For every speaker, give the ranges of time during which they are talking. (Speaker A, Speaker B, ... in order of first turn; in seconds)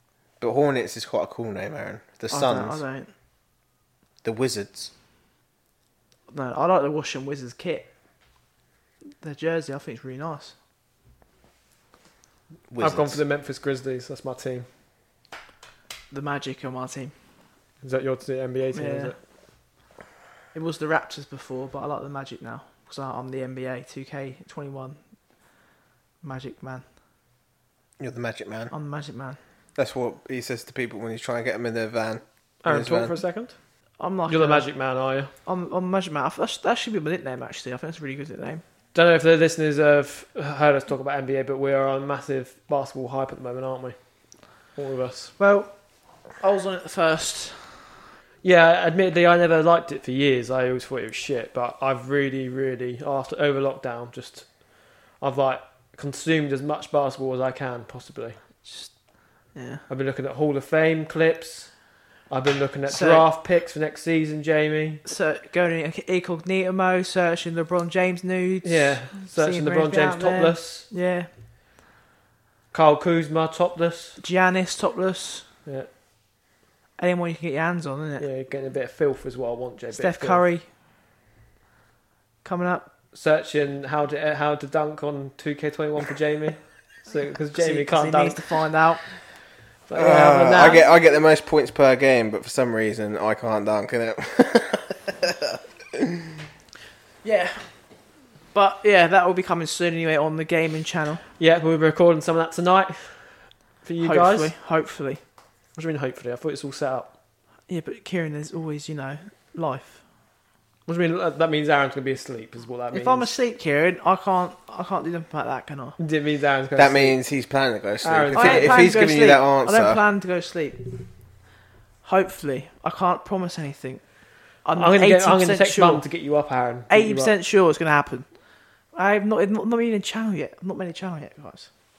Speaker A: 0.4-2.8, 4.2-4.9, 12.7-13.2, 28.0-28.7, 29.8-33.1, 90.0-96.2, 116.8-120.0
Speaker B: 2.3-3.1, 6.3-7.9, 9.2-10.6, 16.1-17.1, 18.8-19.1, 20.5-25.0, 26.2-26.8, 28.7-29.4, 34.0-34.7, 35.4-38.6, 45.4-45.7, 46.3-47.9, 58.6-58.9, 59.5-59.8, 62.9-63.3, 65.0-71.3, 74.2-75.5, 77.0-78.3, 79.9-80.7, 82.4-82.9, 87.5-89.0, 97.2-97.7, 98.5-101.2, 104.0-105.2, 107.7-110.0, 112.9-116.0, 118.3-121.1, 122.0-124.0, 124.6-126.0, 126.9-128.3, 128.9-131.7
Speaker C: 12.8-14.7, 17.8-19.2, 32.6-33.6, 34.3-35.3, 38.9-45.3, 48.4-58.4, 59.9-65.0, 68.6-70.9, 72.7-74.2, 78.2-80.4, 83.1-88.4, 89.9-90.8, 101.4-104.5, 105.8-107.1, 110.9-113.3, 116.0-117.2, 118.0-118.9, 124.8-127.3